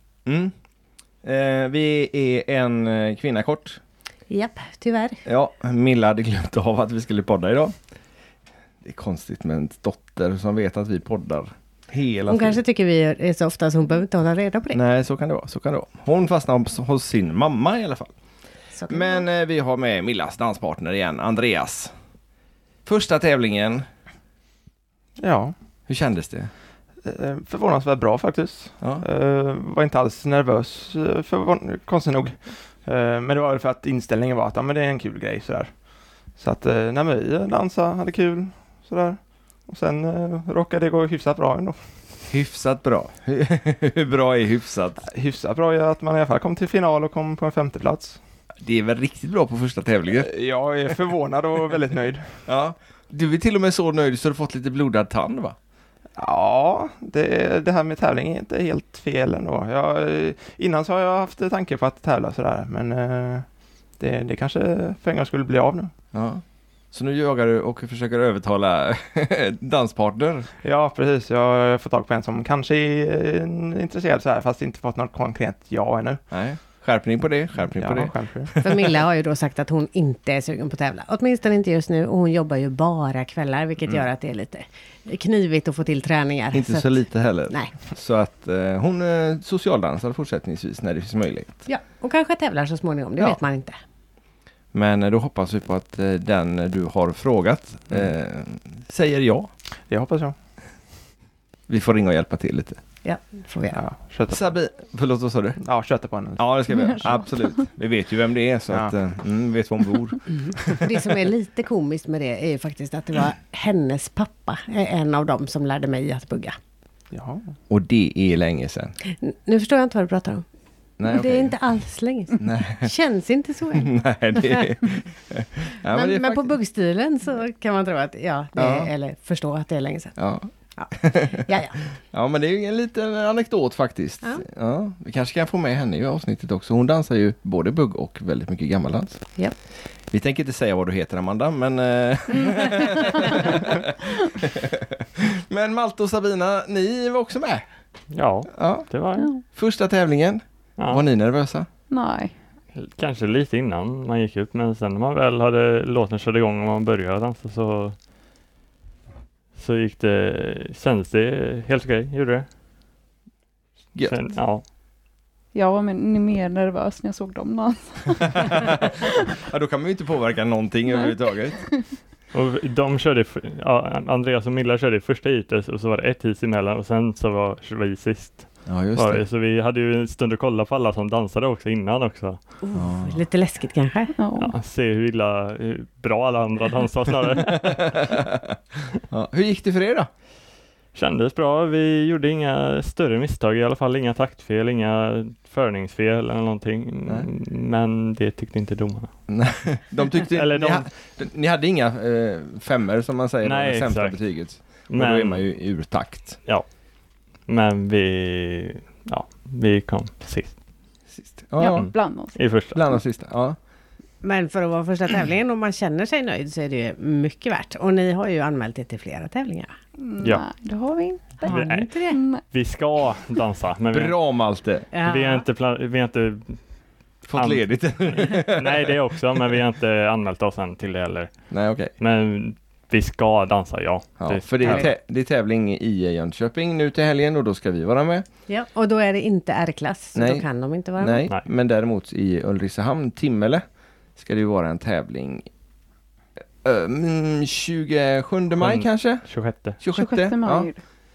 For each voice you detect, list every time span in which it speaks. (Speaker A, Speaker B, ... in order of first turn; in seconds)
Speaker A: 0.2-0.5, 1.2-3.8, 5.2-7.7, 8.8-12.6, 14.7-18.1, 18.9-21.9, 22.9-23.8, 25.9-26.5, 42.3-45.0, 48.6-50.3, 52.5-55.5, 66.1-70.5, 76.3-78.8, 86.5-91.6, 94.7-99.5, 101.7-102.8, 104.3-105.6, 106.3-110.7, 117.7-118.9, 121.0-121.6, 122.4-122.9, 123.7-126.5, 128.6-128.9, 130.2-131.4, 132.1-139.4, 140.1-147.7, 148.5-151.7, 163.9-164.4, 169.4-171.6, 178.7-179.2, 182.7-183.2, 187.5-188.6, 189.1-190.1, 199.3-206.4, 211.1-212.1, 212.7-213.6, 223.9-224.9, 227.2-228.9, 231.5-231.9, 234.2-238.2, 240.1-243.6, 244.2-245.5, 246.6-250.7
Speaker B: 4.3-5.2, 12.3-14.8, 18.7-19.2, 78.6-87.7, 91.6-93.8, 103.0-103.8, 110.3-116.5, 119.1-120.4, 121.0-124.6, 125.8-131.8, 182.6-184.1, 214.2-219.7, 221.4-222.2, 224.9-225.4, 234.7-234.9, 238.5-241.2
Speaker C: 25.2-25.5, 27.0-42.0, 45.0-48.2, 50.1-52.4, 56.1-65.9, 70.6-76.2, 77.7-78.5, 99.9-100.7, 103.7-104.5, 105.6-106.6, 117.1-117.5
Speaker D: 106.7-107.5, 149.2-149.4, 151.9-152.3, 165.5-168.7, 170.9-171.8, 184.2-184.5, 211.6-212.6, 220.0-222.4, 249.8-250.8
Speaker E: 148.1-149.3, 150.8-151.0, 152.7-157.9, 159.5-162.5, 164.1-164.6, 172.3-182.5, 184.3-188.1, 190.9-199.1, 200.2-200.9, 203.4-205.8, 207.4-210.6, 211.6-212.8, 221.3-226.7, 227.3-234.9, 248.6-249.8